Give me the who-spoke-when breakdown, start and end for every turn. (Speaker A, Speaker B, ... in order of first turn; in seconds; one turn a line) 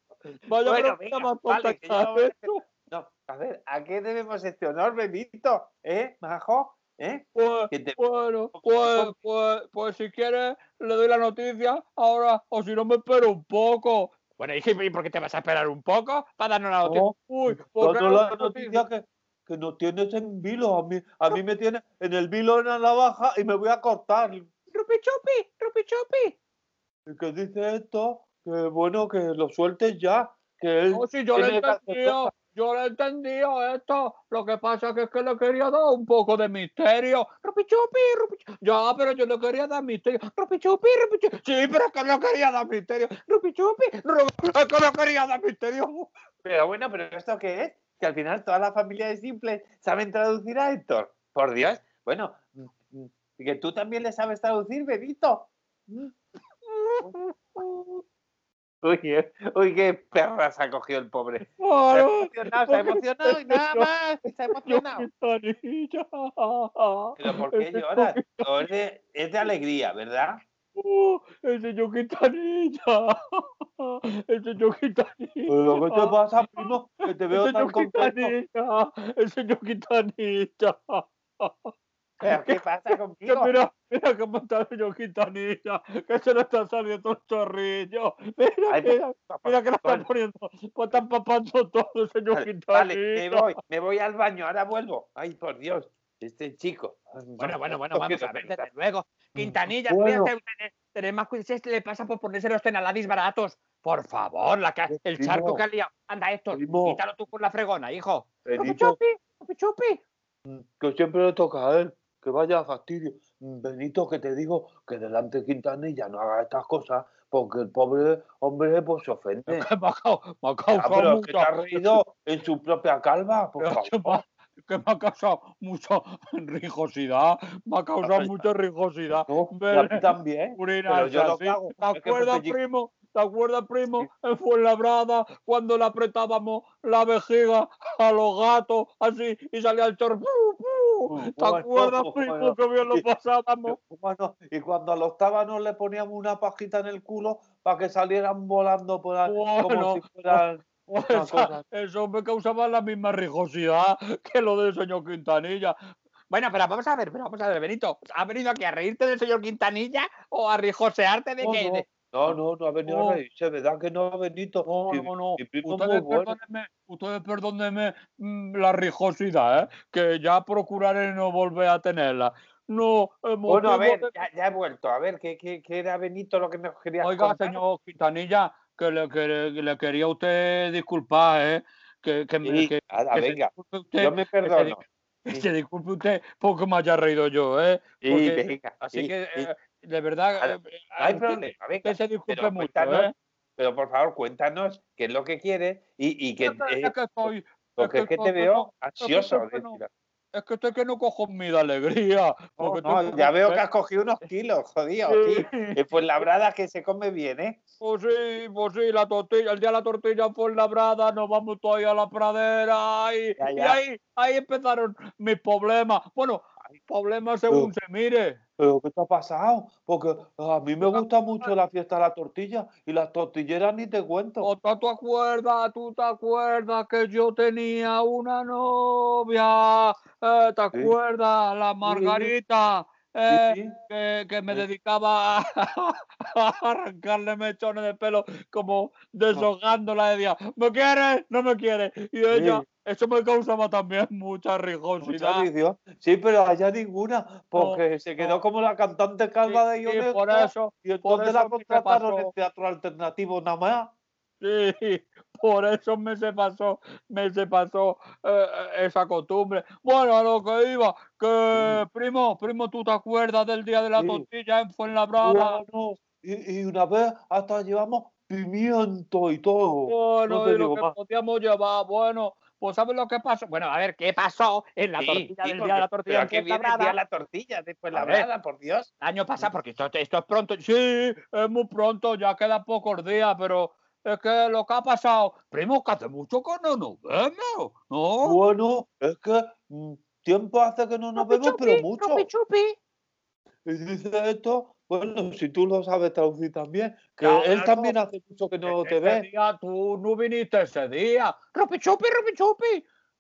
Speaker A: 0.5-2.6
Speaker B: 0.6-8.0
Speaker A: 7.3-14.2
Speaker B: 8.6-9.2
Speaker C: 14.4-17.1
Speaker B: 16.8-24.5
Speaker A: 17.1-18.7
Speaker C: 24.7-26.3
Speaker B: 27.1-32.3
Speaker A: 30.9-40.4
Speaker C: 37.5-38.4
Speaker C: 40.4-41.2
Speaker A: 41.3-43.3
Speaker C: 43.3-44.0
Speaker A: 44.1-46.1
Speaker B: 46.4-56.1
Speaker A: 56.7-57.6
Speaker B: 58.8-65.1
Speaker A: 61.6-63.9
Speaker A: 64.5-68.7
Speaker B: 67.2-70.4
Speaker A: 70.8-76.7
Speaker B: 75.5-78.3
Speaker A: 77.3-81.7
Speaker B: 82.2-83.5
Speaker A: 82.2-93.5
Speaker B: 88.7-90.1
Speaker B: 92.3-98.7
Speaker C: 97.4-110.0
Speaker B: 99.4-100.3
Speaker B: 104.9-105.6
Speaker B: 106.5-107.0
Speaker B: 108.5-109.0
Speaker B: 110.5-119.7
Speaker A: 119.5-122.0
Speaker B: 120.7-124.2
Speaker A: 123.6-143.8
Speaker B: 128.0-128.4
Speaker B: 129.3-132.6
Speaker B: 141.1-143.1
Speaker B: 143.7-151.6
Speaker A: 149.2-155.8
Speaker C: 156.3-161.8
Speaker B: 161.4-166.3
Speaker A: 162.3-163.2
Speaker A: 164.7-174.1
Speaker B: 173.5-177.6
Speaker A: 177.0-193.1
Speaker B: 182.4-185.4
Speaker B: 188.0-189.5
Speaker B: 190.4-199.9
Speaker A: 196.4-199.8
Speaker A: 200.3-203.6
Speaker B: 202.6-207.6
Speaker A: 205.1-206.3
Speaker A: 207.8-218.4
Speaker B: 213.4-213.8
Speaker B: 218.6-224.5
Speaker A: 220.8-221.5
Speaker A: 224.4-245.5
Speaker B: 231.8-232.3
Speaker B: 233.3-233.8
Speaker B: 242.3-242.6
Speaker B: 245.0-253.9
Speaker A: 247.6-248.4
Speaker A: 249.5-252.3
Speaker A: 254.4-265.6
Speaker B: 261.5-261.8
Speaker B: 264.0-264.3
Speaker B: 265.2-270.9
Speaker A: 269.9-273.5
Speaker C: 273.5-277.0
Speaker B: 275.0-279.5
Speaker C: 277.9-278.3
Speaker C: 279.0-280.6
Speaker A: 280.6-288.4
Speaker B: 288.2-292.3
Speaker C: 291.2-292.8
Speaker B: 293.6-299.3
Speaker A: 297.2-298.0
Speaker A: 298.6-301.4
Speaker C: 301.5-302.8